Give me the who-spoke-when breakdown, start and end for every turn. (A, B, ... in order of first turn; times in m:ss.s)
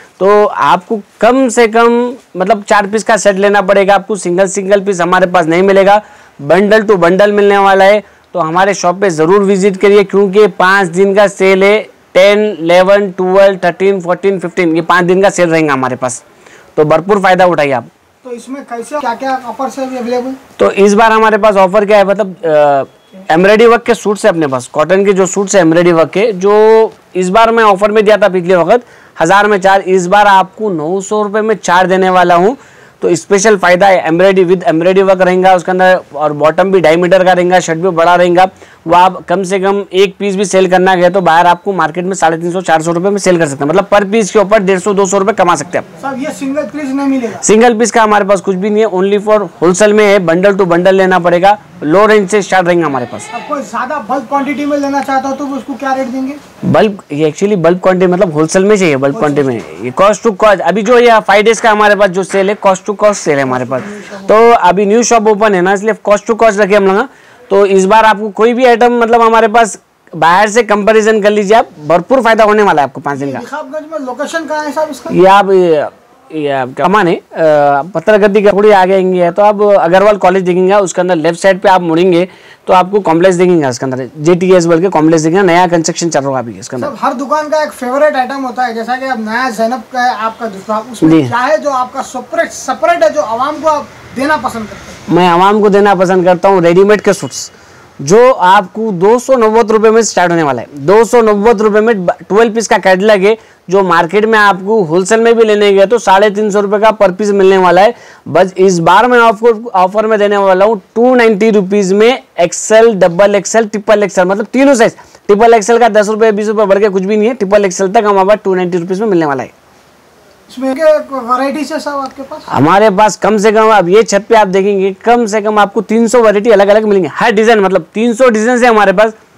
0:00.2-0:16.2 A
0:16.8-0:17.9 A
0:18.2-0:20.4 B
0:20.6-0:45.8 A
0:46.0-0:47.4 B
0:47.4-0:53.3 A
0:53.3-0:56.4 B
0:56.6-1:13.4 A
0:59.2-0:59.5 B
1:03.6-1:04.3 B
1:13.1-1:15.2 B
1:15.1-1:26.9 A
1:26.8-1:35.0 B
1:31.0-1:31.3 A
1:35.1-1:59.5 A
2:00.5-2:02.5 B
2:02.5-2:09.1 A